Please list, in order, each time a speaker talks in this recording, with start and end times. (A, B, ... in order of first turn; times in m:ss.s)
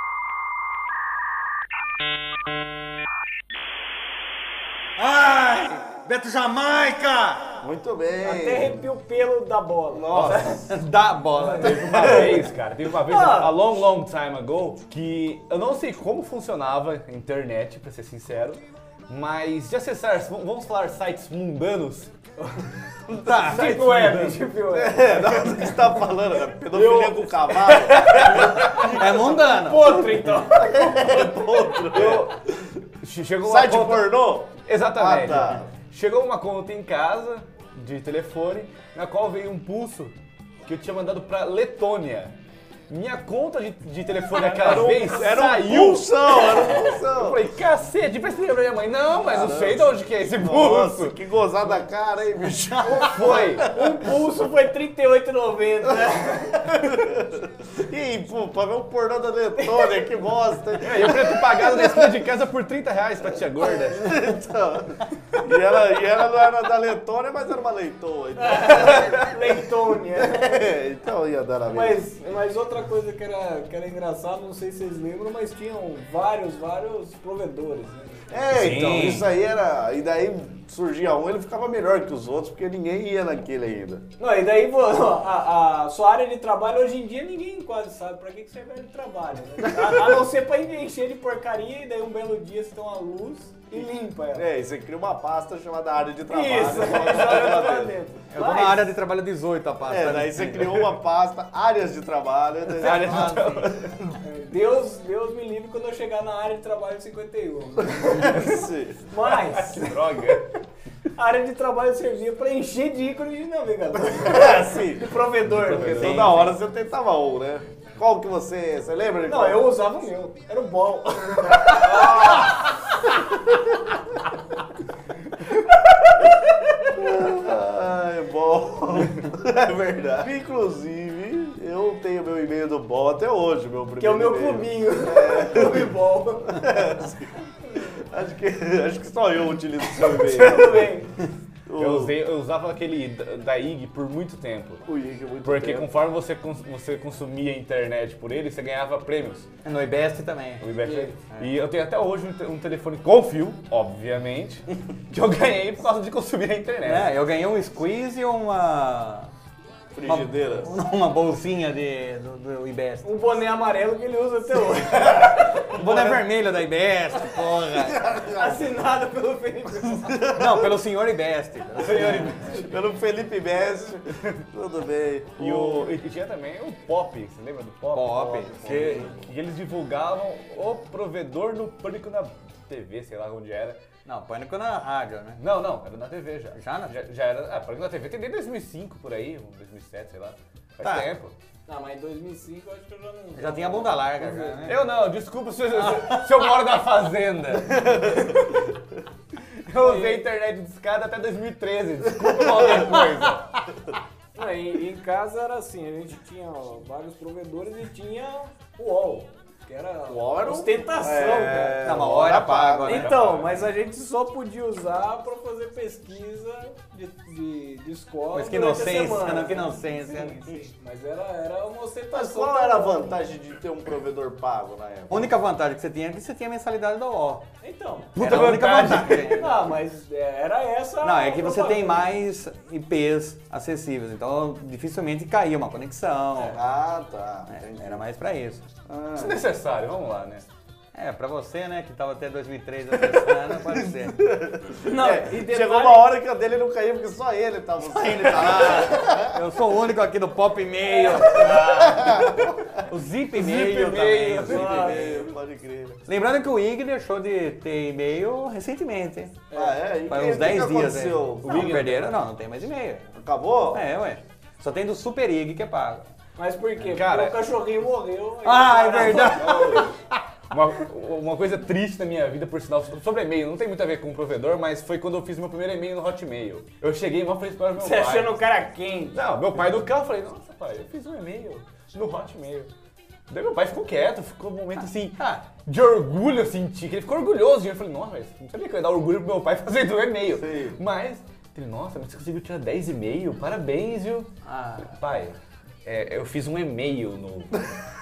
0:05.0-0:07.6 A
0:07.6-0:08.8 B
0:08.2-0:10.6 C
0:09.9-0:10.7 B
0:10.7-0:12.3 A
0:11.4-0:11.7 C
0:11.6-0:22.1 D
0:11.9-0:12.4 B
0:13.1-0:13.6 C
0:22.4-0:22.7 C
0:23.1-0:23.8 A
0:23.4-0:25.8 C
0:23.5-0:24.4 D
0:24.7-0:29.7 B
0:26.7-0:28.8 C
0:28.6-0:30.1 A
0:29.4-0:31.2 C
0:30.5-0:32.6 B
0:31.9-0:32.3 D
0:33.0-0:40.2 D
0:33.4-0:35.7 B
0:40.7-0:42.3 D
0:42.9-0:51.2 D
0:44.3-0:47.4 B
0:49.2-0:53.7 B
0:52.8-0:56.8 C
0:53.0-0:53.7 D
0:56.6-1:02.2 B
0:59.6-1:00.0 C
1:00.8-1:04.1 D
1:03.8-1:09.3 B
1:08.4-1:10.7 C
1:10.1-1:12.0 B
1:11.7-1:18.3 C
1:18.3-1:24.0 B
1:18.5-1:19.3 A
1:24.2-1:34.5 C
1:29.7-1:30.2 B
1:34.3-1:38.0 B
1:36.3-1:38.9 C
1:38.3-1:40.9 A
1:39.9-1:43.8 B
1:42.8-1:43.8 D
1:42.8-1:43.8 A
1:44.2-1:48.5 C
1:48.3-1:49.0 B
1:49.1-1:50.0 C
1:49.3-1:50.4 D
1:51.2-1:56.5 C
1:54.1-1:55.1 B
1:55.5-1:56.5 D
1:55.8-1:59.6 B
1:59.3-2:02.1 C
2:01.8-2:02.5 B
2:05.4-2:06.1 C
2:06.9-2:20.9 B
2:14.0-2:16.7 C
2:20.2-2:21.1 C
2:21.7-2:22.2 B
2:21.8-2:24.8 D
2:24.9-2:25.9 B
2:25.4-2:29.5 D
2:29.6-2:30.7 A
2:30.6-2:37.1 D
2:30.8-2:31.2 C
2:31.3-2:31.5 A
2:36.8-2:39.3 A
2:39.9-2:40.8 B
2:40.0-2:43.1 A
2:43.0-2:45.6 C
2:45.5-2:48.1 A
2:45.8-2:46.2 B
2:47.9-2:48.6 B
2:48.4-2:50.3 C
2:50.1-2:50.7 B
2:50.3-2:52.5 A
2:51.8-2:52.6 D
2:52.5-2:56.0 B
2:55.4-3:03.8 D
2:57.9-2:59.1 A
2:58.6-2:59.1 B
3:04.1-3:05.4 A
3:05.4-3:11.3 D
3:06.6-3:07.0 A
3:10.8-3:11.1 A
3:11.7-3:14.7 C
3:13.4-3:14.9 A
3:14.7-3:18.2 D
3:15.8-3:16.5 A
3:19.7-3:23.5 D
3:19.8-3:20.3 C
3:24.4-3:31.8 C
3:30.1-3:33.2 B
3:31.8-3:33.4 A
3:32.9-3:43.2 C
3:33.2-3:33.4 D
3:38.3-3:40.5 A
3:42.1-3:45.3 B
3:45.1-3:47.4 A
3:47.6-3:48.2 C
3:48.2-3:49.6 A
3:48.2-3:49.5 D
3:49.4-3:52.0 C
3:51.0-3:56.6 A
3:56.4-3:58.0 B
3:57.5-3:58.6 A
3:58.9-3:59.4 B
3:59.2-4:00.4 D
4:00.9-4:04.2 A
4:03.0-4:09.4 B
4:04.8-4:06.1 C
4:07.8-4:15.0 A
4:10.9-4:11.2 C
4:11.4-4:12.6 B
4:13.3-4:14.9 D
4:14.5-4:16.0 B
4:14.5-4:15.0 C
4:16.1-4:19.4 A
4:19.5-4:19.8 C
4:19.5-4:21.7 B
4:20.1-4:23.1 A
4:21.4-4:22.1 D
4:23.2-4:23.8 B
4:23.7-4:26.0 A
4:26.4-4:29.4 C
4:26.8-4:27.4 D
4:28.4-4:29.9 A
4:28.9-4:30.0 D
4:30.5-4:38.5 D
4:37.8-4:39.2 C
4:39.1-4:42.7 D
4:43.3-4:54.3 D
4:44.8-4:45.4 A
4:50.3-4:50.8 B
4:54.5-4:54.9 A
4:54.9-4:57.6 D